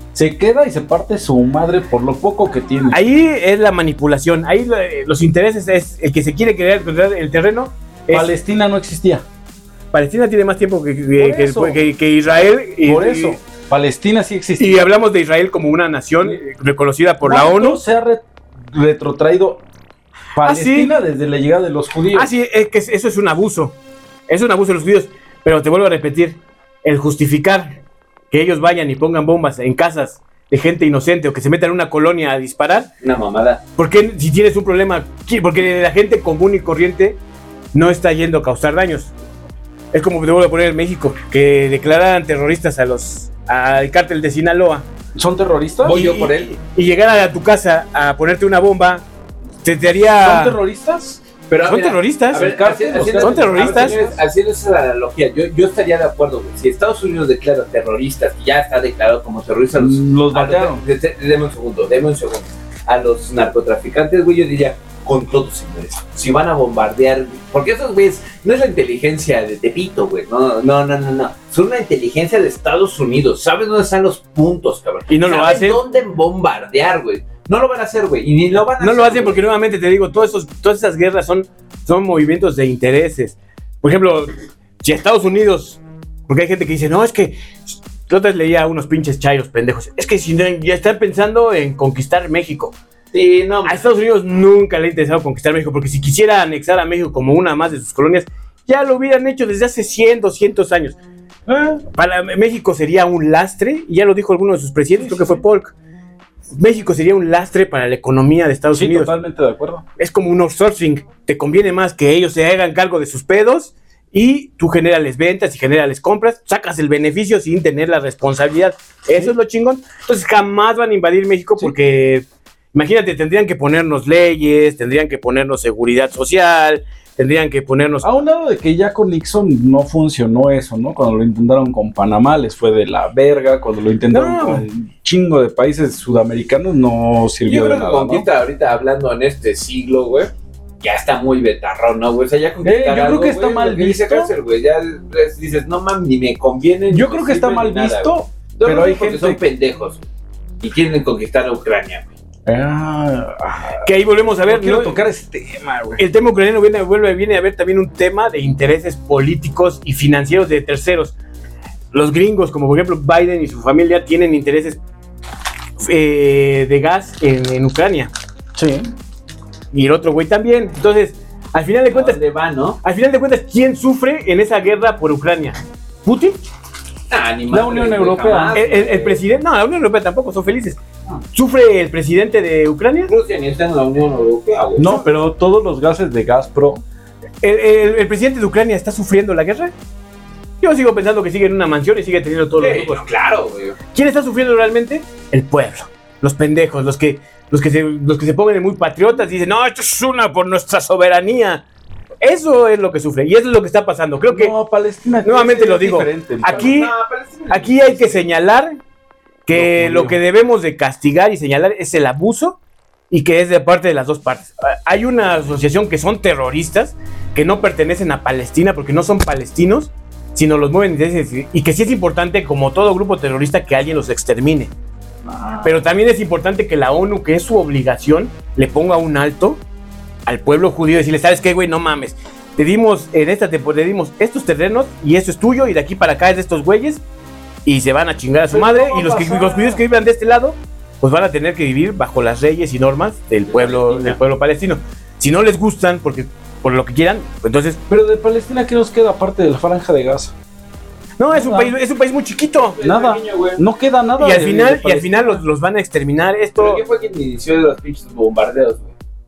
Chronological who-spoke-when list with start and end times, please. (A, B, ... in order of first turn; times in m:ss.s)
0:00.2-0:03.0 A
0:02.9-0:08.3 B
0:08.1-0:09.2 A
0:09.9-0:13.4 B
0:11.2-0:11.8 A
0:12.8-0:14.9 A
0:14.6-0:17.8 B
0:17.2-0:19.6 A
0:20.4-0:22.3 A
0:20.4-0:20.9 B
0:22.1-0:23.8 B
0:24.3-0:27.7 B
0:28.3-0:32.9 B
0:33.0-0:33.6 C
0:33.8-0:37.2 B
0:37.7-0:39.1 B
0:39.9-0:44.9 B
0:45.2-0:46.0 A
0:45.8-0:46.6 C
0:45.9-0:49.0 B
0:49.6-0:50.6 B
0:50.2-0:51.2 A
0:51.5-1:19.4 C
0:51.6-0:52.5 B
0:52.3-0:54.2 A
0:53.2-0:54.0 B
0:59.8-1:00.8 A
1:15.1-1:15.8 B
1:18.8-1:32.8 B
1:33.1-1:33.9 C
1:33.7-1:41.0 B
1:41.6-1:45.7 B
1:45.0-1:45.4 A
1:46.6-1:49.1 B
1:48.7-1:49.8 A
1:50.0-2:08.1 B
2:08.0-2:18.3 A
2:14.1-2:14.6 B
2:17.4-2:30.0 C
2:22.6-2:24.3 A
2:26.9-2:29.4 A
2:30.6-2:32.1 C
2:32.5-2:33.9 A
2:33.8-2:35.0 B
2:34.4-2:36.0 A
2:36.0-2:41.2 B
2:41.9-2:44.8 B
2:45.8-2:48.1 B
2:48.6-2:48.9 A
2:49.7-2:52.2 B
2:51.9-2:52.8 C
2:52.8-2:56.4 B
2:57.1-2:59.2 C
2:57.5-2:58.6 A
2:58.6-3:00.8 B
3:01.3-3:03.1 B
3:03.1-3:04.9 C
3:04.8-3:06.8 A
3:04.8-3:05.1 B
3:07.4-3:09.7 B
3:10.6-3:13.1 B
3:12.6-3:13.8 C
3:13.9-3:21.6 B
3:22.2-3:24.5 B
3:24.3-3:26.7 A
3:25.2-3:26.9 B
3:26.4-3:28.2 C
3:27.5-3:28.8 B
3:29.5-3:32.6 B
3:29.5-3:30.2 A
3:33.1-3:44.7 B
3:45.3-3:45.8 A
3:45.6-3:49.6 B
3:50.3-3:57.0 B
3:57.7-4:07.8 B
3:58.5-3:59.8 A
4:03.6-4:04.2 A
4:07.9-4:10.4 A
4:11.2-4:12.8 B
4:11.3-4:11.7 A
4:12.8-4:13.6 C
4:12.8-4:15.4 A
4:14.2-4:16.8 B
4:16.6-4:18.9 C